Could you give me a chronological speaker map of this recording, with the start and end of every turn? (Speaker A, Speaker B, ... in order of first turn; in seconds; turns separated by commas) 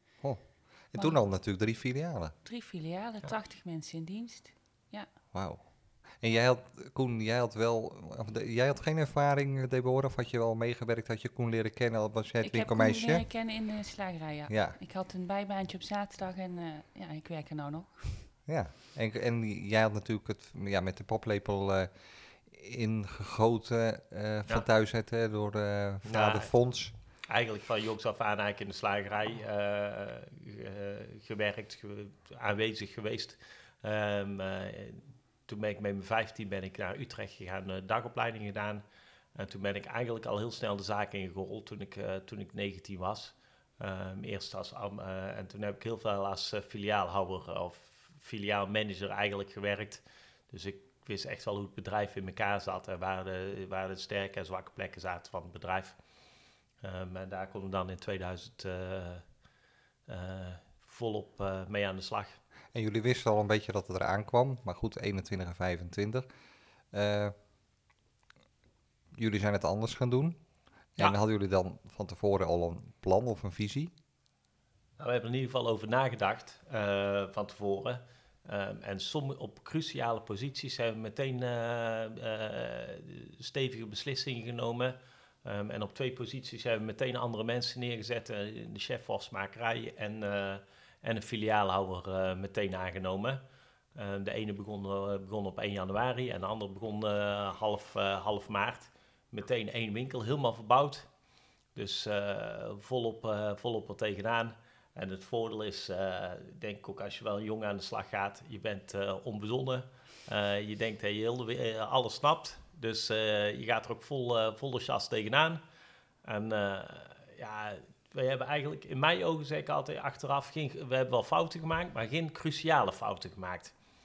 Speaker A: 0.2-2.4, Speaker B: 2.4-5.1, Speaker A: 5.3-5.6, Speaker A: 6.1-13.3, Speaker B: 12.4-18.3, Speaker A: 14.5-14.8, Speaker A: 18.5-26.9, Speaker C: 26.1-26.5, Speaker C: 27.3-38.8, Speaker C: 39.4-56.0, Speaker C: 56.8-59.2, Speaker C: 60.1-62.4, Speaker A: 62.7-66.3, Speaker A: 66.9-67.3, Speaker A: 69.2-70.4, Speaker A: 71.0-73.9, Speaker C: 75.0-93.4, Speaker C: 94.0-101.1, Speaker C: 101.8-115.6, Speaker C: 116.2-123.7